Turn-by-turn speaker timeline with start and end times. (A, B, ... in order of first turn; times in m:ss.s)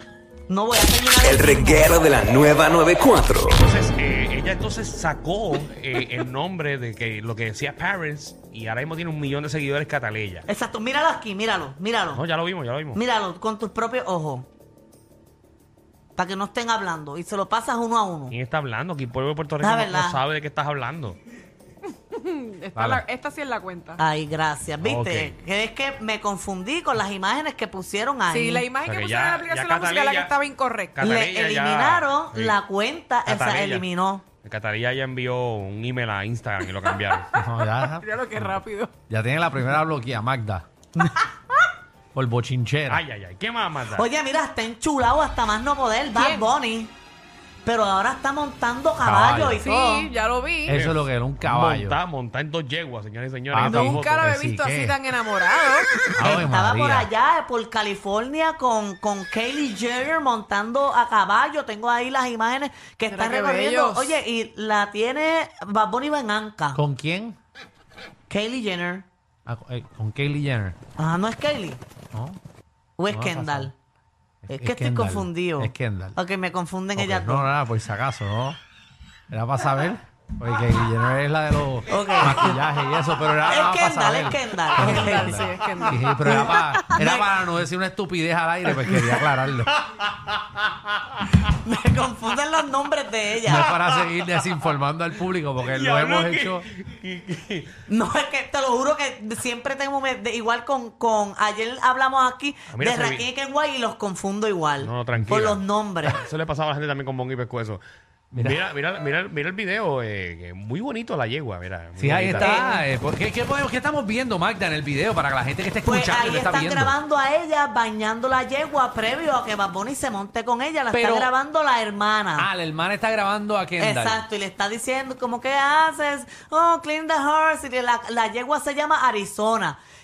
0:00.5-0:02.0 A
0:01.2-0:03.6 B
0:03.5-0:10.5 C
0:10.5-0:12.2 A
0:12.1-0:13.0 C
0:12.9-0:14.5 A
0:16.2-0:18.4 A
0:18.3-0:21.2 C
0:19.6-0:20.2 A
0:22.1-0:24.0 D
0:22.8-0:23.0 E
0:24.0-0:28.7 A
0:24.8-0:25.4 C
0:28.3-0:31.0 D
0:28.8-0:30.3 C
0:30.9-0:32.6 C
0:31.0-0:34.2 A
0:33.2-0:33.9 C
0:34.4-0:37.3 C
0:36.8-0:38.9 D
0:37.3-0:40.7 E
0:41.0-0:41.2 A
0:42.1-0:43.0 E
0:42.9-0:44.0 C
0:44.0-0:46.9 A
0:46.1-0:46.5 D
0:47.6-0:50.1 A
0:49.0-0:49.6 E
0:49.6-0:50.7 D
0:50.7-0:52.0 E
0:50.7-0:54.3 C
0:53.5-0:55.0 E
0:53.6-0:56.1 D
0:56.2-0:57.1 E
0:56.2-1:06.8 A
1:03.1-1:04.2 D
1:06.7-1:07.4 E
1:08.3-1:09.1 A
1:09.5-1:10.8 E
1:11.0-1:11.8 A
1:12.1-1:12.4 E
1:13.0-1:13.7 A
1:13.1-1:13.7 E
1:14.4-1:16.2 E
1:14.5-1:17.5 A
1:17.0-1:18.6 E
1:19.3-1:29.7 E
1:21.9-1:22.7 A
1:23.4-1:25.5 A
1:24.8-1:27.0 D
1:26.2-1:27.4 A
1:28.9-1:29.1 C
1:29.9-1:30.7 C
1:31.5-1:33.7 A
1:33.5-1:36.7 E
1:33.5-1:34.3 C
1:35.6-1:37.7 C
1:37.9-1:46.2 A
1:42.7-1:43.3 C
1:44.8-1:52.7 C
1:48.4-1:48.6 E
1:52.0-1:56.9 E
1:52.4-1:52.8 A
1:55.8-2:02.5 A
2:00.9-2:01.3 E
2:02.4-2:04.2 E
2:03.8-2:09.8 A